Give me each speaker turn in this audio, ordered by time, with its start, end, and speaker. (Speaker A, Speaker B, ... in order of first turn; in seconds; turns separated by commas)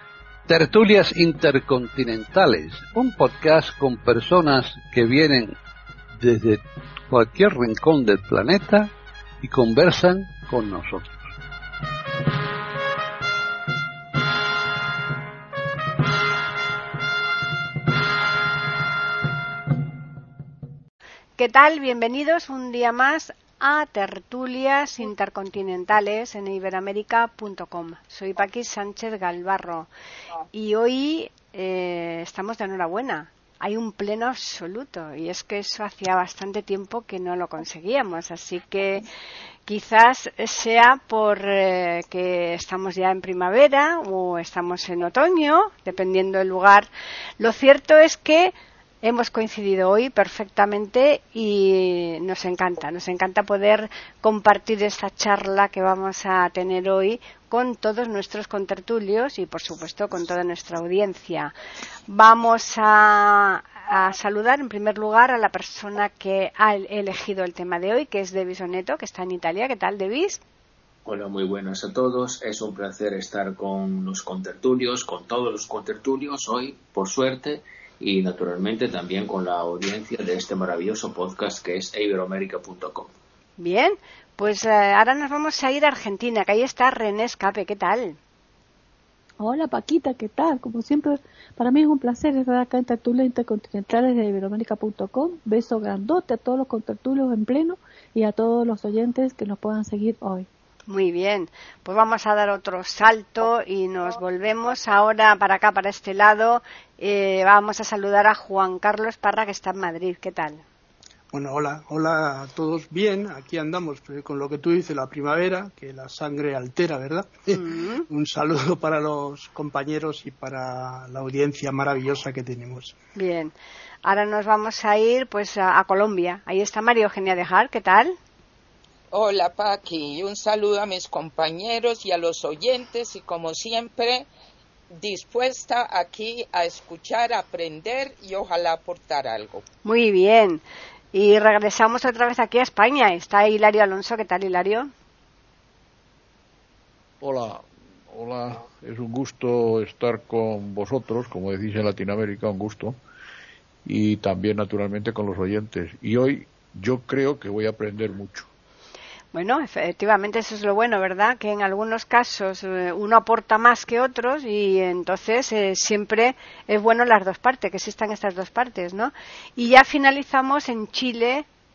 Speaker A: 0.5-5.5, Speaker A: 6.2-8.9, Speaker A: 9.4-11.1, Speaker B: 21.4-29.9, Speaker B: 30.5-39.0, Speaker B: 39.7-46.9, Speaker B: 47.4-61.5, Speaker B: 62.1-70.4, Speaker C: 71.1-83.1, Speaker B: 83.6-88.2, Speaker D: 89.4-100.5, Speaker B: 100.9-110.6, Speaker E: 111.3-123.0, Speaker B: 117.5-118.0, Speaker B: 123.2-128.2, Speaker F: 129.1-134.3, Speaker F: 134.9-139.6, Speaker B: 139.8-144.9, Speaker G: 147.2-153.0, Speaker G: 153.8-158.5, Speaker B: 159.3-171.4